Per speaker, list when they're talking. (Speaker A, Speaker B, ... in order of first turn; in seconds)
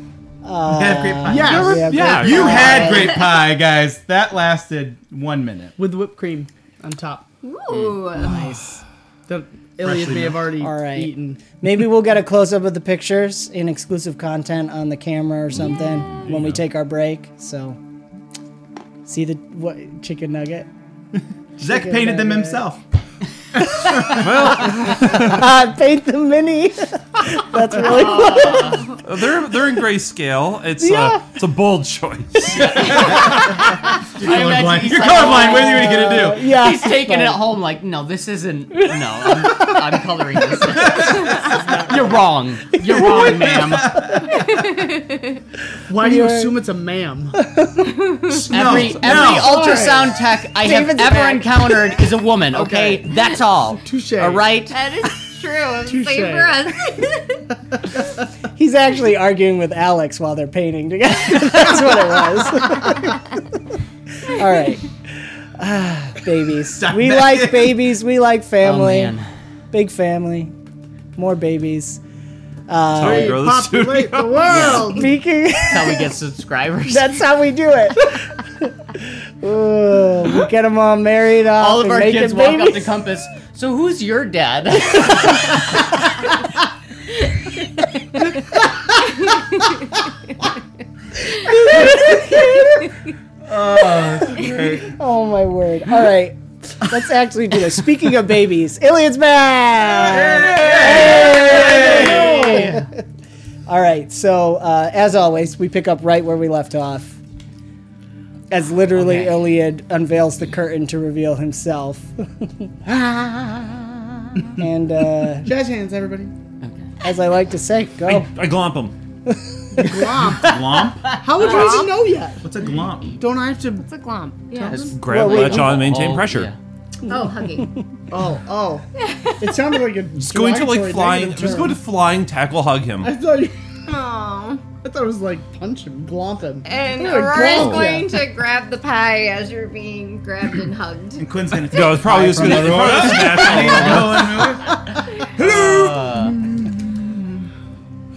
Speaker A: 0.4-3.3, 8.1-8.8, 10.6-17.8, 19.1-20.7, 21.6-22.7, 24.4-29.0, 30.8-31.3, 35.5-37.5, 38.7-40.0, 45.9-46.5, 47.4-47.9, 50.6-52.0, 58.5-63.6, 64.2-69.2, 69.7-70.6, 71.2-72.0, 72.7-73.5, 74.9-76.2, 76.9-83.0, 84.9-85.2, 91.7-92.9, 94.8-102.9, 103.7-107.2, 108.5-115.5, 117.0-118.3, 119.3-120.0, 125.1-125.9, 142.0-143.0
Speaker B: 0.7-5.8, 9.8-10.5, 21.6-22.8, 23.5-24.5, 32.5-33.6, 34.1-36.5, 40.9-41.6, 42.9-44.5, 48.3-49.7, 66.7-67.8, 93.5-95.0, 99.9-102.5, 120.1-121.2, 122.4-123.2, 141.2-147.5
Speaker C: 1.3-3.0, 5.8-7.3, 9.3-11.6, 45.9-47.4, 48.8-50.2, 52.5-53.3, 53.8-54.5, 55.8-56.7, 73.0-75.1, 115.4-116.3, 119.8-122.4, 123.2-123.8, 124.5-125.3, 127.0-127.4, 128.1-131.8, 133.0-133.8, 134.8-138.1
Speaker D: 1.9-2.2, 16.2-16.6, 24.2-25.4, 28.9-32.7, 72.9-74.8, 118.0-119.0, 125.0-126.5, 130.2-133.1, 137.5-137.9, 141.7-144.2
Speaker E: 7.4-8.4, 44.5-45.1, 54.7-57.5, 121.4-121.9, 123.8-124.9, 127.1-127.8, 129.0-129.8, 133.9-134.7, 136.6-141.4
Speaker F: 27.8-29.0, 32.8-44.1, 48.5-54.8, 68.6-69.3, 74.5-75.0, 75.6-77.2, 81.5-86.0, 102.4-102.8, 108.9-109.5, 116.6-117.0, 124.7-126.6, 142.8-144.6, 145.4-146.4